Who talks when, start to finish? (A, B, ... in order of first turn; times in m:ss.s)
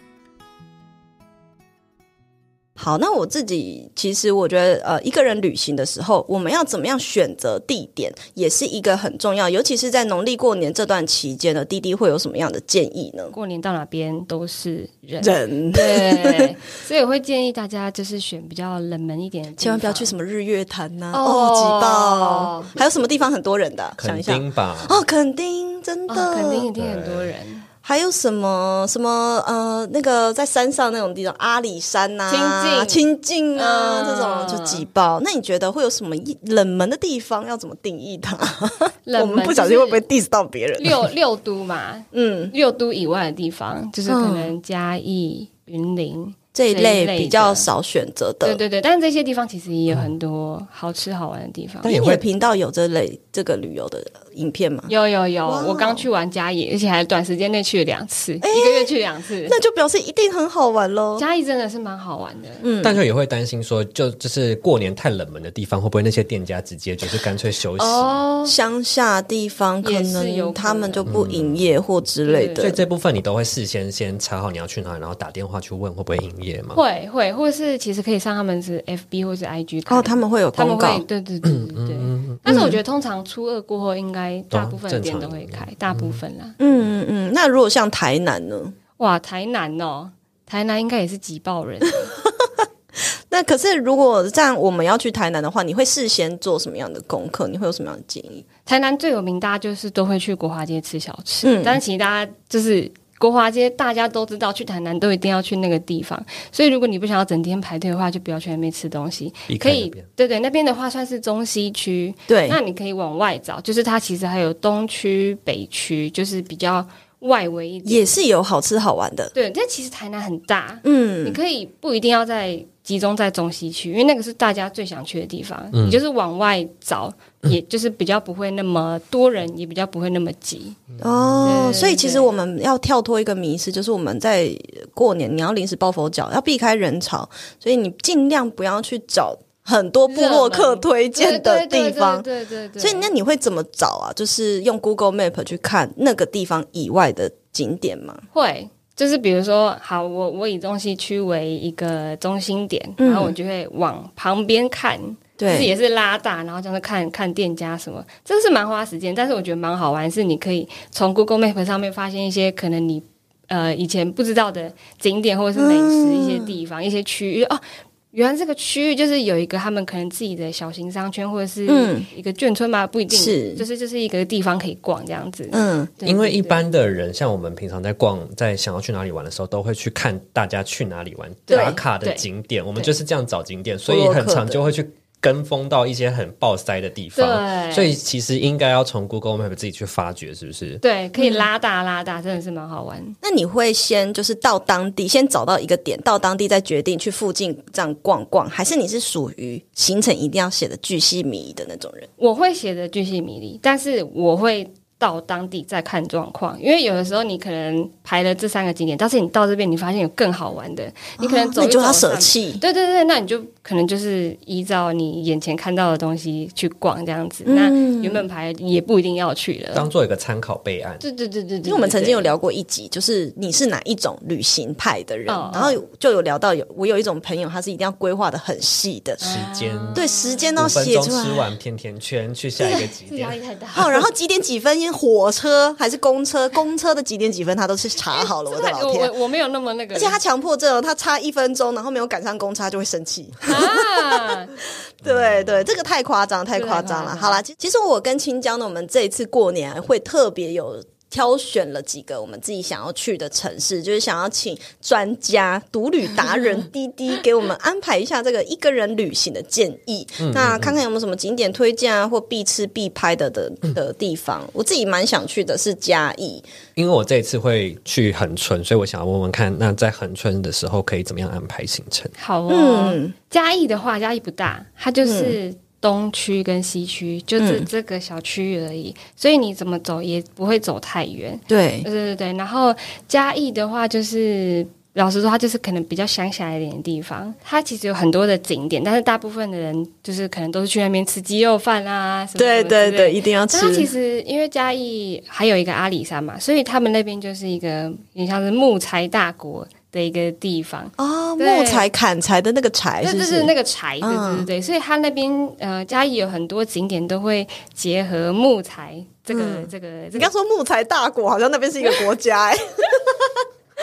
0:02.8-0:13.3 A
0:13.3-0:20.1 B
0:15.2-0:16.4 A
0:19.6-0:26.7 A
0:21.1-0:22.7 B
0:24.0-0:25.0 C
0:26.1-0:27.7 B
0:26.8-0:27.3 C
0:27.8-0:41.0 A
0:32.3-0:34.8 B
0:39.0-0:40.1 B
0:40.8-0:47.7 B
0:42.1-0:42.5 A
0:44.1-0:44.5 A
0:46.5-0:48.6 A
0:48.4-0:52.2 B
0:51.8-0:54.9 A
0:51.9-0:52.2 C
0:54.9-0:59.6 B
0:55.4-0:56.1 A
0:58.4-0:58.9 A
0:59.4-1:01.2 A
1:01.2-1:02.6 B
1:02.6-1:03.0 A
1:02.8-1:08.2 C
1:07.8-1:08.5 B
1:08.4-1:12.8 A
1:09.8-1:11.1 B
1:11.1-1:11.7 C
1:12.2-1:12.7 B
1:12.6-1:16.8 C
1:16.7-1:26.6 B
1:19.9-1:21.0 A
1:21.4-1:22.7 C
1:22.4-1:22.8 A
1:24.5-1:26.2 C
1:26.6-1:28.7 A
1:29.0-1:32.1 B
1:32.2-1:38.4 A
1:38.6-1:58.1 B
1:41.4-1:41.8 A
1:49.5-1:50.0 C
1:52.3-1:52.6 A
1:57.8-1:59.3 A
1:59.3-2:10.8 B
2:00.8-2:01.4 A
2:05.7-2:06.0 C
2:10.9-2:11.4 C
2:11.0-2:22.2 A
2:11.4-2:12.3 B
2:20.1-2:23.1 B
2:22.8-2:28.2 A
2:28.3-2:56.6 B
2:33.0-2:33.3 A
2:35.4-2:35.7 A
2:45.6-2:46.5 A
2:51.7-2:52.1 A
2:53.1-2:53.6 A
2:55.5-2:55.9 A
2:56.0-3:10.8 C
3:01.5-3:02.2 B
3:01.5-3:01.8 A
3:03.8-3:04.6 A
3:07.2-3:08.0 B
3:10.8-3:13.2 B
3:11.2-3:11.4 A
3:13.2-3:22.1 A
3:22.2-3:39.9 B
3:31.2-3:32.6 A
3:37.4-3:38.2 A
3:39.7-3:41.0 C
3:41.0-3:42.3 B
3:41.6-3:49.2 A
3:45.3-3:45.8 B
3:49.2-3:50.6 B
3:49.2-3:53.4 C
3:49.9-3:51.5 A
3:52.6-3:54.0 B
3:53.7-3:59.1 A
3:58.1-4:00.2 B
3:59.9-4:04.3 A
4:03.4-4:04.5 B
4:05.0-4:26.4 A
4:05.0-4:05.7 C
4:06.5-4:07.4 B
4:20.2-4:20.8 C
4:26.8-4:32.1 C
4:32.2-5:01.9 B
4:32.5-4:33.1 A
4:35.0-4:35.4 A
4:37.4-4:37.7 A
4:41.5-4:41.9 A
4:52.4-4:53.9 A
5:01.0-5:04.5 A
5:03.0-5:10.3 B
5:09.3-5:13.4 A